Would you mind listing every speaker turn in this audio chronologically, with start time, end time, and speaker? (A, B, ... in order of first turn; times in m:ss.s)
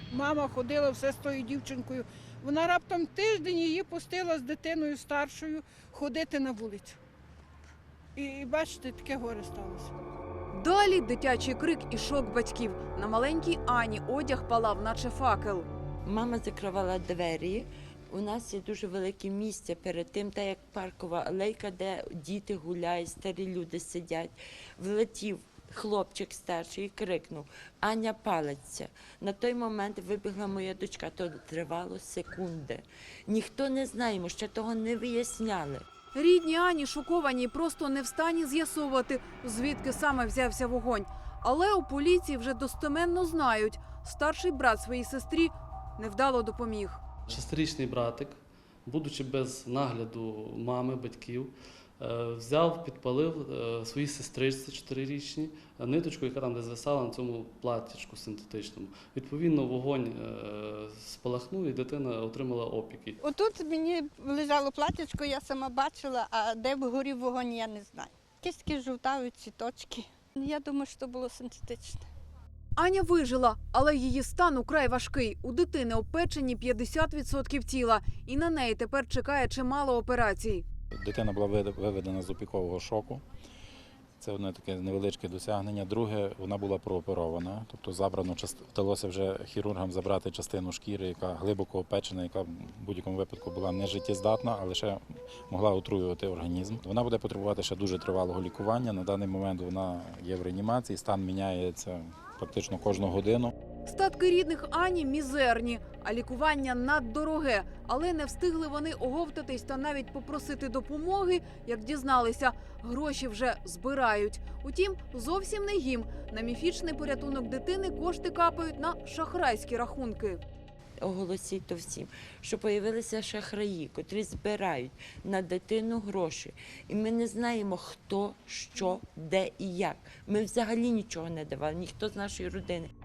0:00.1-0:07.0 A
0:08.2-0:09.9 A
0:10.5-0:15.7 B
0:16.0-0:35.8 C
0:36.1-0:47.0 B
0:47.3-1:03.2 D
1:03.2-1:12.1 E
1:12.8-1:20.6 B
1:21.0-1:23.2 F
1:24.2-1:43.5 F
1:43.8-2:00.4 B
2:01.0-2:12.9 C